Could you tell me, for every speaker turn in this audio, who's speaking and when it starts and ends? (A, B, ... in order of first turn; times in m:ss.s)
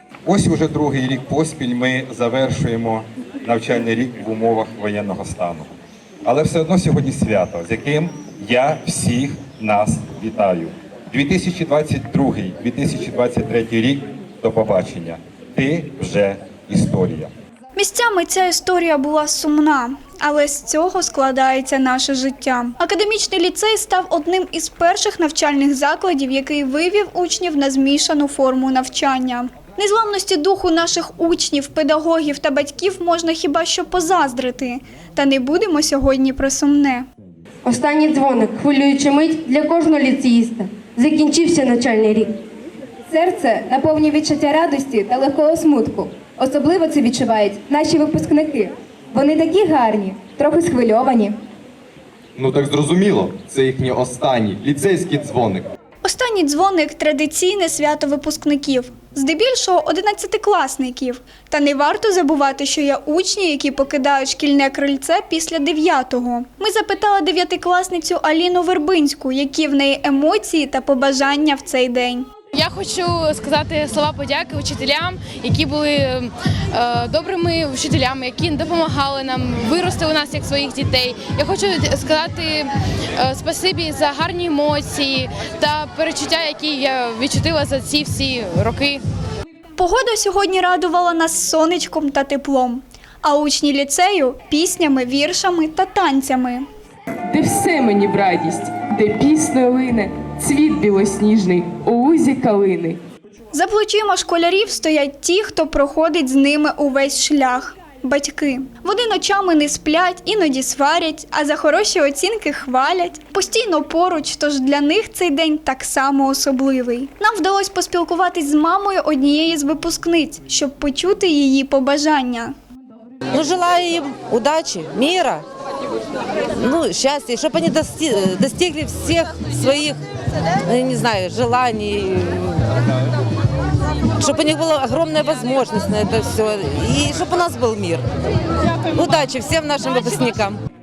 0:00.2-0:05.7 A
0:06.2-0:17.3 A
0:17.7-0:37.0 B
0:37.9-0:42.2 C
0:43.1-0:51.4 D
0:52.4-0:55.7 E
0:56.0-1:12.3 B
1:12.5-1:29.0 F
1:29.8-1:36.6 B
1:37.3-1:43.0 G
1:43.5-2:02.5 B
2:03.3-2:05.4 H
2:06.6-2:10.0 H
2:10.6-2:12.6 H
2:14.2-2:18.0 H
2:18.9-2:20.6 H